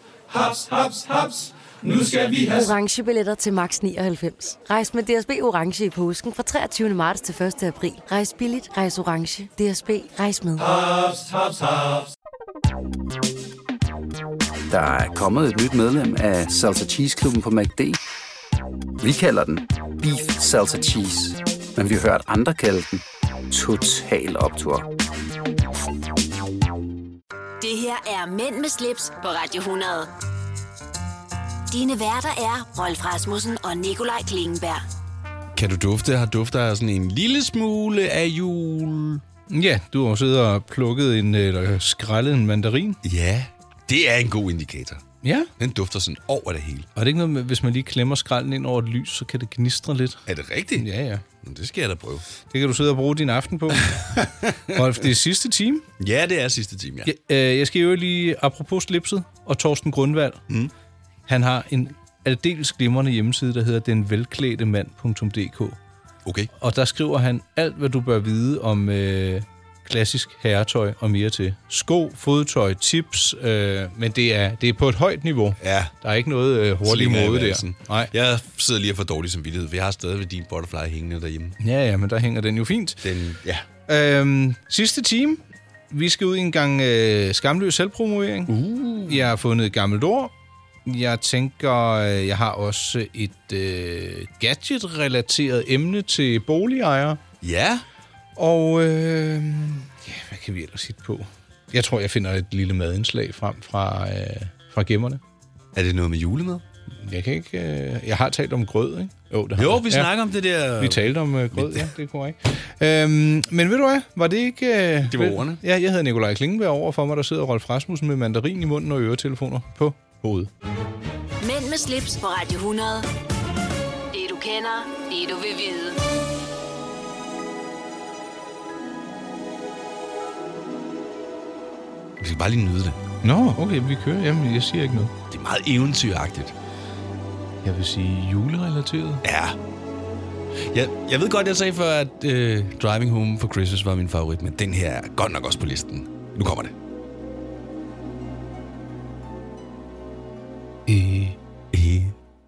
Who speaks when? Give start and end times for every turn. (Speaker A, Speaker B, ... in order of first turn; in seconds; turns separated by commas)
Speaker A: 0.3-2.4, Speaker B: 2.4-10.8, Speaker A: 10.8-11.7, Speaker C: 14.7-18.0, Speaker C: 19.0-24.9, Speaker D: 27.6-30.1, Speaker D: 31.7-34.8, Speaker E: 35.5-39.2, Speaker F: 39.5-43.0, Speaker E: 43.0-45.0, Speaker F: 45.2-45.5, Speaker E: 45.6-46.9, Speaker F: 47.0-51.2, Speaker E: 50.3-52.2, Speaker F: 52.5-54.0, Speaker E: 53.9-54.6, Speaker F: 54.7-55.9, Speaker E: 56.0-57.1, Speaker F: 57.1-60.4, Speaker F: 61.3-65.8, Speaker E: 66.2-66.5, Speaker F: 66.5-78.1, Speaker E: 75.6-75.9, Speaker E: 76.8-81.6, Speaker F: 81.6-83.0, Speaker E: 83.0-83.7, Speaker F: 83.9-90.3, Speaker E: 88.5-89.3, Speaker F: 90.8-97.2, Speaker E: 97.4-97.8, Speaker F: 98.4-105.2, Speaker E: 105.7-106.7, Speaker F: 107.0-110.1, Speaker E: 109.6-111.9, Speaker F: 110.8-120.5, Speaker E: 115.1-115.6, Speaker D: 121.4-123.1, Speaker D: 124.1-126.0, Speaker E: 132.2-133.0, Speaker F: 133.2-135.1, Speaker E: 135.3-136.5, Speaker F: 137.6-139.2, Speaker E: 139.2-139.6, Speaker E: 140.6-146.7, Speaker F: 150.9-151.4, Speaker E: 151.7-152.2